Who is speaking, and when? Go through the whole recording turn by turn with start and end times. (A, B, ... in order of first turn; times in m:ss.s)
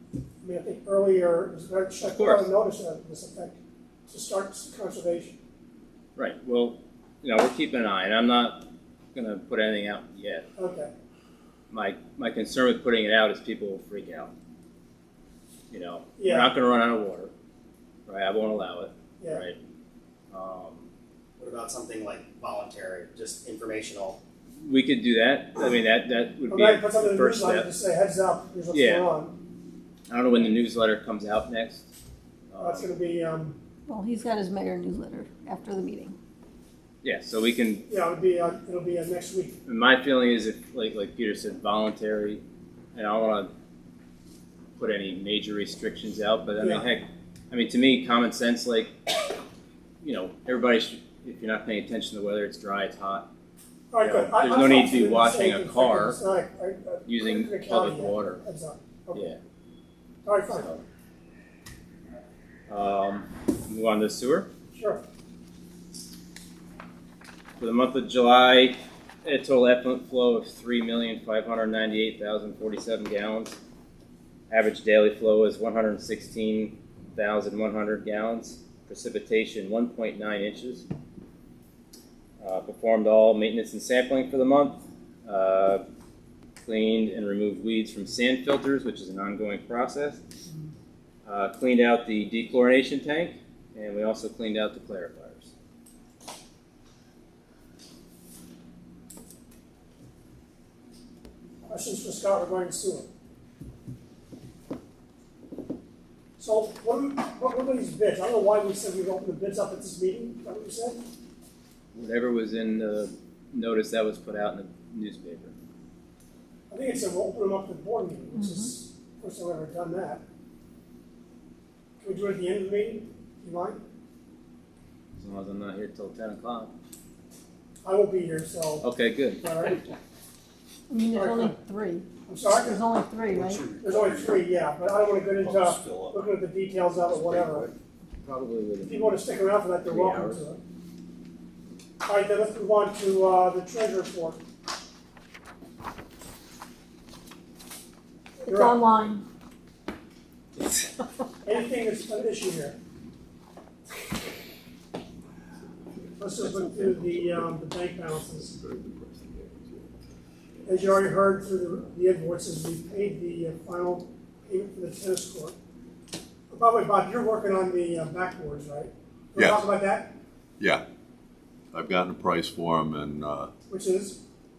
0:00.4-0:05.4 A
0:02.0-0:02.5 B
0:06.2-0:10.4 B
0:10.6-0:10.9 A
0:11.7-0:14.3 B
0:15.7-0:17.3 B
0:16.2-0:16.5 A
0:18.1-0:19.6 B
0:19.2-0:19.4 A
0:20.3-0:20.9 B
0:21.4-0:24.2 C
0:24.6-0:27.7 B
0:26.5-0:29.3 A
0:28.7-0:29.1 B
0:30.1-0:31.9 B
0:32.5-0:32.9 B
0:32.6-0:33.6 A
0:33.9-0:36.2 D
0:37.0-0:37.9 B
0:37.9-0:39.6 A
0:39.6-0:42.4 B
0:42.9-0:43.5 B
0:44.8-0:49.3 B
0:46.6-0:46.9 A
0:50.0-0:53.3 B
0:53.9-0:59.2 A
0:54.0-0:56.2 B
0:57.1-0:58.4 B
1:00.2-1:00.7 A
1:00.5-1:00.8 B
1:02.7-1:04.5 B
1:04.7-1:05.0 A
1:07.6-1:13.6 B
1:14.5-1:20.9 B
1:22.4-1:25.8 B
1:26.6-1:30.2 B
1:31.3-1:35.5 B
1:41.7-1:43.1 A
1:46.4-1:51.0 A
1:52.0-1:55.5 B
1:56.7-2:00.2 A
1:58.4-1:58.7 D
2:02.0-2:03.8 A
2:05.2-2:06.7 B
2:07.8-2:08.9 A
2:08.8-2:09.9 B
2:09.4-2:09.8 A
2:10.9-2:13.7 D
2:11.1-2:11.6 A
2:12.3-2:12.8 A
2:13.3-2:14.4 C
2:13.8-2:17.7 A
2:15.4-2:16.2 C
2:18.2-2:19.3 B
2:18.8-2:20.6 A
2:19.8-2:20.4 B
2:22.0-2:24.4 A
2:28.4-2:28.9 A
2:28.4-2:29.2 D
2:30.6-2:31.1 D
2:31.4-2:32.8 A
2:35.9-2:39.9 E
2:36.2-2:38.6 A
2:40.7-2:45.6 A
2:46.5-2:50.2 A
2:49.4-2:49.7 E
2:50.6-2:50.8 E
2:51.7-2:53.5 E
2:53.7-2:54.2 A